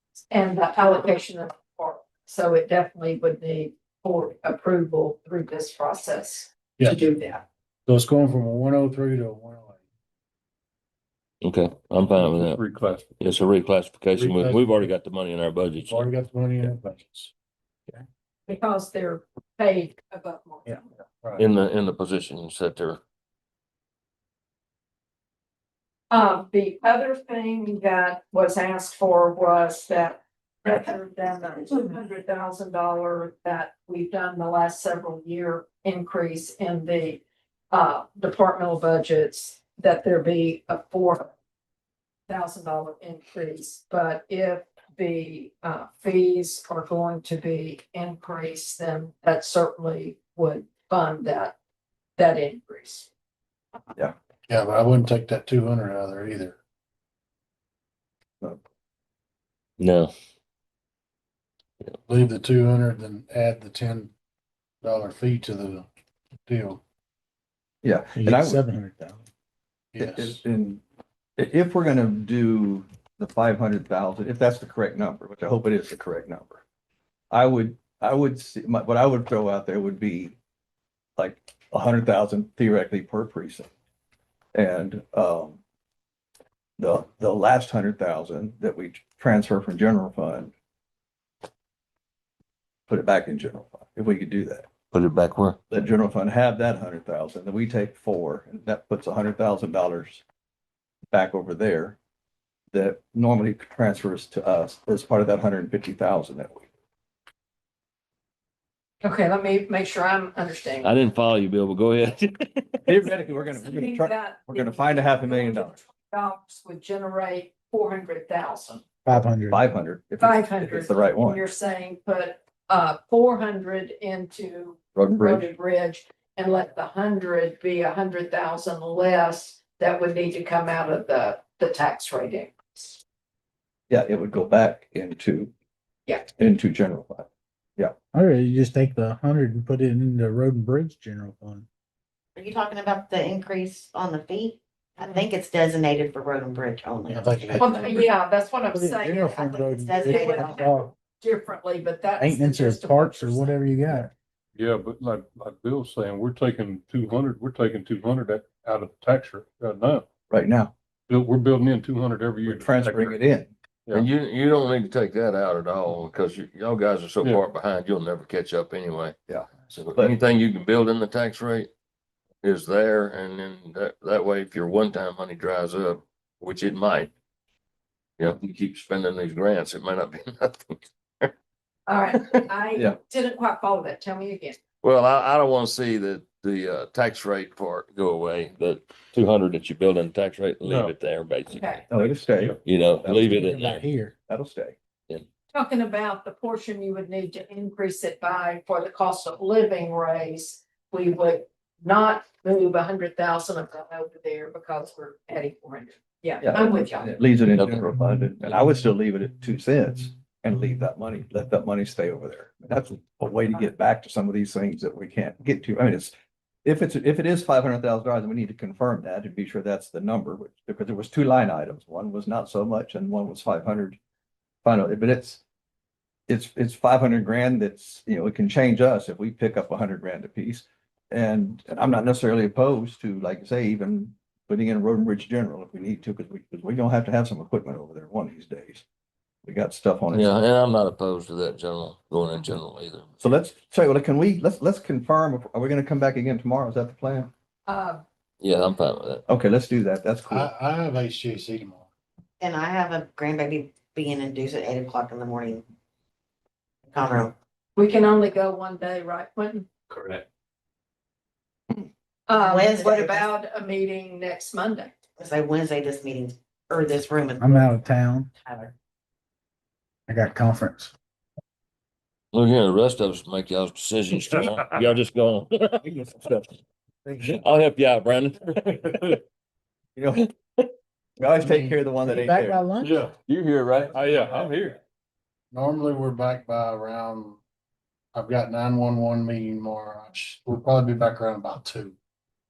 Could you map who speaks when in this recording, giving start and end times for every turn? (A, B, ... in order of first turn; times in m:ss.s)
0:00.3-0:07.4 A
0:06.8-0:07.0 B
0:07.8-0:09.8 B
0:11.4-0:12.6 C
0:12.1-0:13.1 D
0:13.2-0:16.0 C
0:14.2-0:14.8 B
0:15.8-0:17.3 B
0:18.5-0:20.8 A
0:21.4-0:23.0 C
0:26.1-0:41.3 A
0:42.3-0:51.6 A
0:52.2-0:53.1 A
0:54.5-0:56.6 B
0:59.8-1:00.1 C
1:02.1-1:04.1 B
1:04.8-1:05.8 B
1:06.5-1:06.8 B
1:07.8-1:08.6 E
1:08.1-1:09.2 F
1:09.9-1:10.4 B
1:10.0-1:10.8 E
1:11.4-1:16.6 E
1:17.3-1:20.4 E
1:21.2-1:23.7 E
1:24.5-1:25.6 E
1:26.8-1:30.5 E
1:32.9-1:34.7 E
1:34.9-1:35.6 C
1:35.7-1:40.2 E
1:41.1-1:42.0 E
1:42.7-1:46.7 E
1:49.0-1:50.9 A
1:50.8-1:53.0 C
1:52.9-1:55.8 E
1:53.2-1:59.2 A
1:59.0-1:59.6 F
1:59.5-2:01.4 E
2:00.2-2:13.0 A
2:04.9-2:05.5 E
2:13.9-2:15.5 E
2:16.4-2:17.9 E
2:18.1-2:21.7 F
2:22.3-2:27.6 G
2:27.1-2:27.8 F
2:27.1-2:28.1 B
2:27.6-2:33.5 A
2:28.7-2:30.9 F
2:29.8-2:30.6 G
2:32.2-2:34.1 F
2:34.5-2:40.0 D
2:40.3-2:40.7 E
2:41.1-2:43.2 D
2:42.5-2:43.5 E
2:43.9-2:49.2 C
2:49.3-2:50.2 E
2:49.7-2:51.7 C
2:52.4-2:57.1 C
2:58.2-3:01.3 C
3:01.9-3:04.6 A
3:04.8-3:11.8 C
3:10.6-3:10.9 D
3:11.5-3:11.8 A
3:11.9-3:13.4 E
3:12.3-3:12.6 D
3:12.6-3:13.8 C
3:13.2-3:14.1 F
3:14.3-3:14.8 E
3:15.5-3:27.2 A
3:26.4-3:36.1 E
3:27.5-3:27.9 C
3:36.6-3:44.0 E
3:44.6-3:45.4 E
3:46.3-3:58.8 E
3:59.4-4:00.3 E
4:00.1-4:03.1 C
4:03.2-4:07.3 E
4:07.7-4:08.0 A
4:08.4-4:09.2 C
4:09.3-4:10.5 E
4:10.3-4:11.8 B
4:12.4-4:15.6 G
4:16.9-4:17.3 G
4:17.8-4:19.7 A
4:19.9-4:20.2 C
4:22.3-4:24.9 A
4:22.3-4:23.2 G
4:25.2-4:28.7 G
4:27.4-4:28.3 F
4:30.1-4:30.9 F
4:32.3-4:36.5 C
4:35.8-4:36.1 E
4:37.0-4:37.4 E
4:37.2-4:39.2 C
4:40.0-4:40.2 E
4:41.2-4:42.6 E
4:41.4-4:43.1 F
4:42.8-4:43.1 D
4:43.1-4:44.8 C
4:44.0-4:44.6 D
4:45.5-4:47.4 B
4:48.1-4:52.0 B